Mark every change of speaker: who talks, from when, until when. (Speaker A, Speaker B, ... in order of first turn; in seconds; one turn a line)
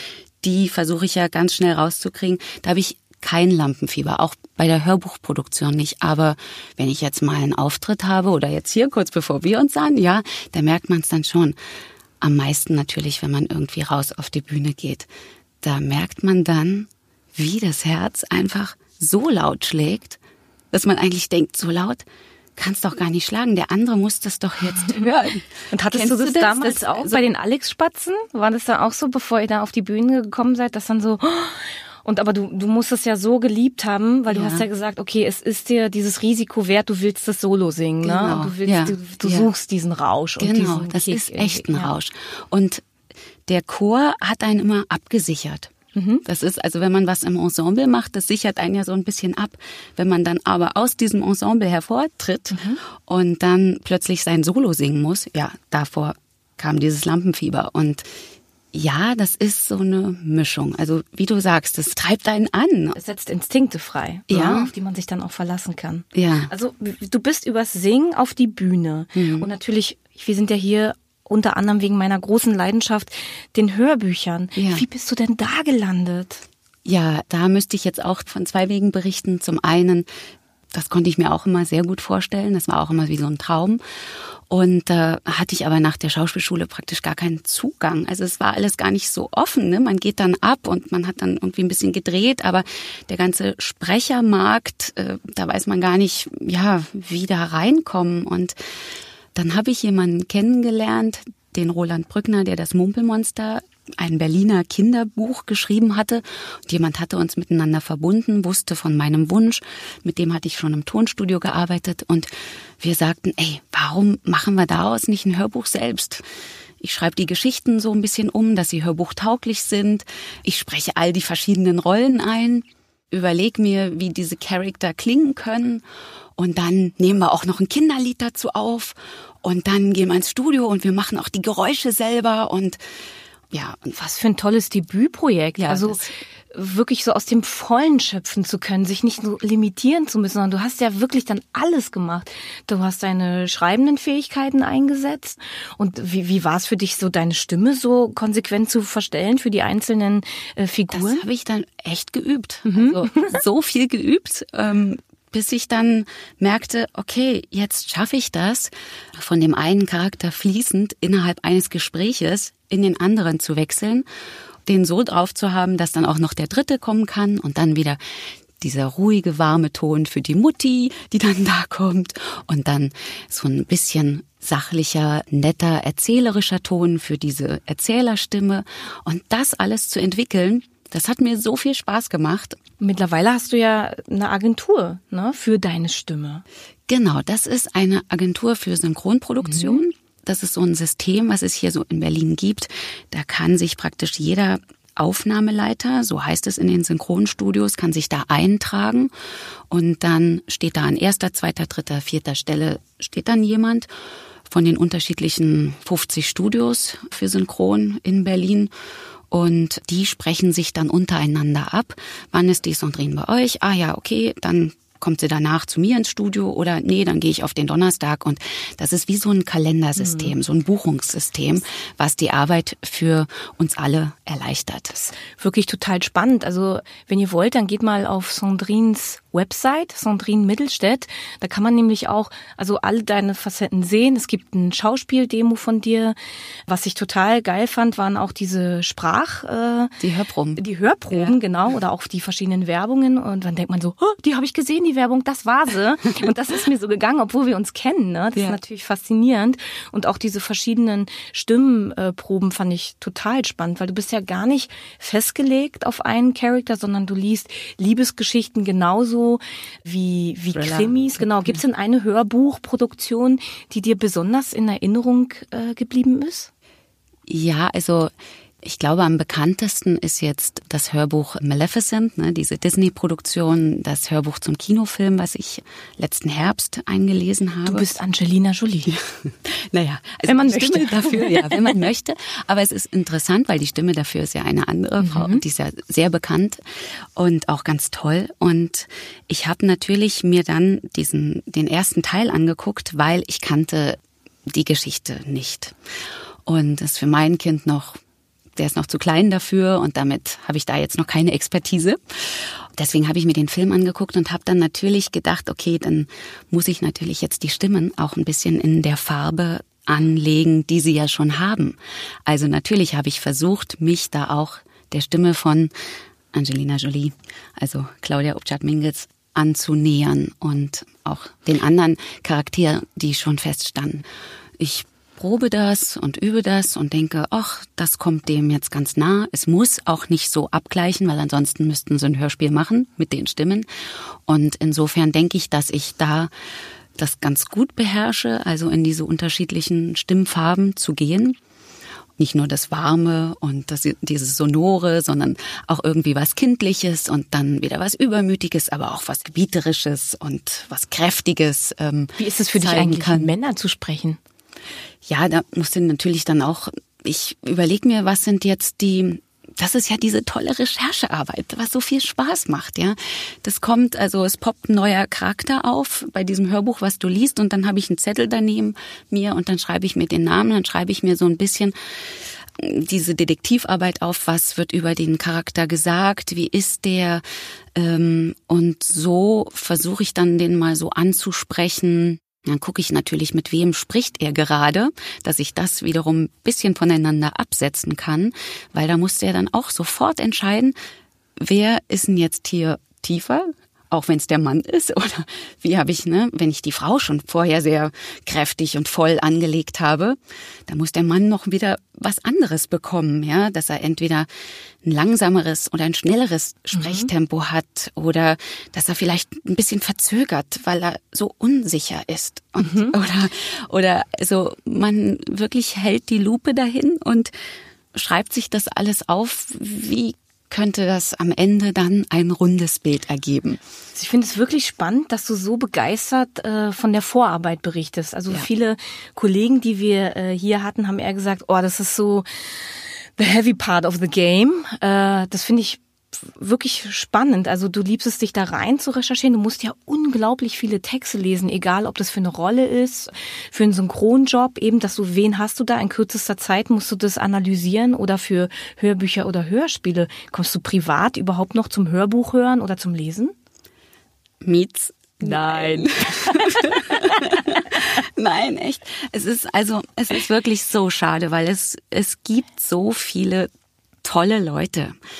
Speaker A: 0.4-11.6
Speaker A: 12.2-15.1
Speaker A: 15.6-20.2
Speaker A: 20.7-22.0
Speaker A: 22.6-27.2
Speaker B: 25.7-41.9
Speaker A: 34.3-34.6
Speaker A: 38.0-39.5
Speaker A: 40.4-42.8
Speaker A: 43.5-45.7
Speaker B: 45.9-46.2
Speaker A: 46.2-58.0
Speaker B: 52.5-52.8
Speaker A: 58.7-63.0
Speaker B: 62.9-76.5
Speaker A: 64.3-64.7
Speaker A: 66.1-66.5
Speaker A: 69.1-69.5
Speaker A: 74.5-74.8
Speaker A: 76.8-80.0
Speaker A: 80.7-83.8
Speaker A: 84.5-98.5
Speaker A: 99.3-112.3
Speaker A: 112.8-116.2
Speaker A: 116.8-125.8
Speaker A: 126.4-132.8
Speaker A: 133.5-133.9
Speaker B: 133.9-136.0
Speaker A: 135.6-136.1
Speaker B: 136.5-151.2
Speaker A: 150.9-164.1
Speaker B: 152.7-153.3
Speaker A: 164.7-168.0
Speaker A: 168.6-182.6
Speaker B: 182.8-186.4
Speaker A: 186.9-199.1
Speaker B: 189.4-189.8
Speaker A: 199.7-203.9
Speaker A: 204.5-208.7
Speaker A: 209.3-224.9
Speaker B: 220.0-220.3
Speaker B: 224.9-236.2
Speaker B: 236.7-239.9
Speaker A: 240.0-241.3
Speaker B: 240.5-266.5
Speaker A: 260.5-261.6
Speaker A: 267.3-268.1
Speaker A: 268.6-277.9
Speaker B: 277.6-278.9
Speaker A: 278.9-286.6
Speaker B: 280.2-281.8
Speaker B: 285.0-285.4
Speaker A: 287.1-295.7
Speaker A: 296.5-298.0
Speaker A: 298.6-315.7
Speaker A: 316.3-324.1
Speaker A: 324.6-333.6
Speaker A: 334.3-336.3
Speaker A: 337.0-341.4
Speaker A: 342.2-353.3
Speaker B: 352.2-354.2
Speaker A: 355.0-371.7
Speaker A: 372.6-377.2
Speaker A: 377.8-390.7
Speaker A: 391.4-400.2
Speaker A: 400.7-404.3
Speaker A: 404.8-417.3
Speaker B: 406.7-407.1
Speaker B: 412.6-412.9
Speaker A: 417.9-423.6
Speaker B: 423.9-432.2
Speaker B: 433.2-453.3
Speaker A: 454.4-463.5
Speaker B: 455.2-457.3
Speaker A: 464.0-464.9